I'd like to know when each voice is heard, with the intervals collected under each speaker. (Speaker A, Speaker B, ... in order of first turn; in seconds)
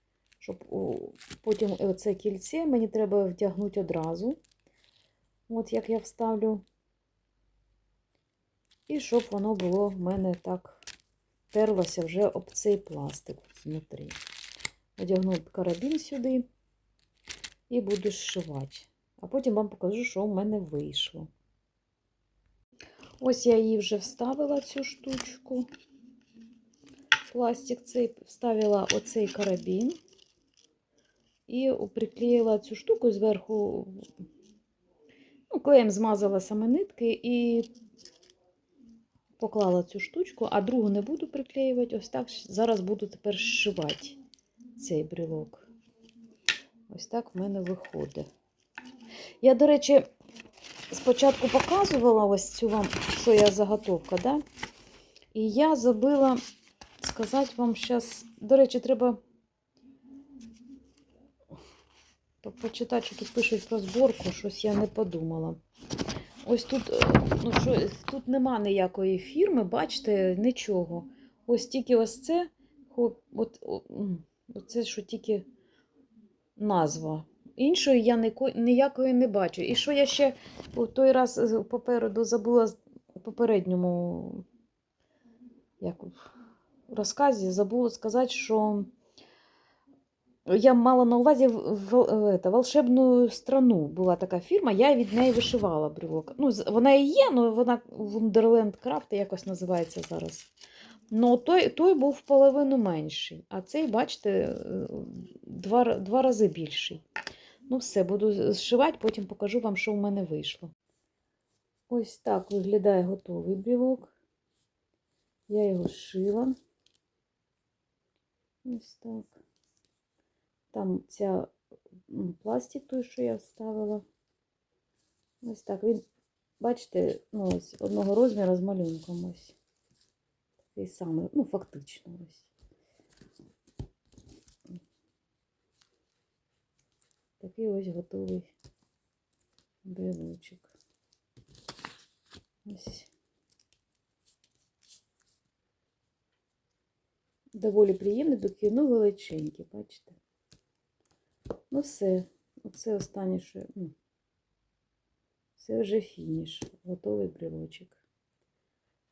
Speaker A: 0.4-4.4, 5.5-6.6, 8.9-10.8, 11.5-14.2, 15.0-16.5, 17.7-21.3, 23.2-25.7, 27.3-30.0, 31.5-34.1, 35.5-37.7, 39.4-44.2, 44.8-45.7, 46.9-48.3, 49.4-50.1, 50.9-54.4, 55.3-56.4, 57.0-59.2, 62.4-65.6, 66.4-75.5, 76.6-84.5, 85.8-86.3, 86.9-88.9, 90.5-100.5, 101.1-107.0, 107.7-110.7, 111.9-114.1, 115.5-116.6, 118.7-119.4, 120.7-121.5, 122.1-124.0, 125.4-126.0, 126.6-129.6, 130.7-132.5, 137.4-138.5, 139.8-140.7, 142.7-143.1, 147.6-150.2, 151.7-153.9, 155.6-158.0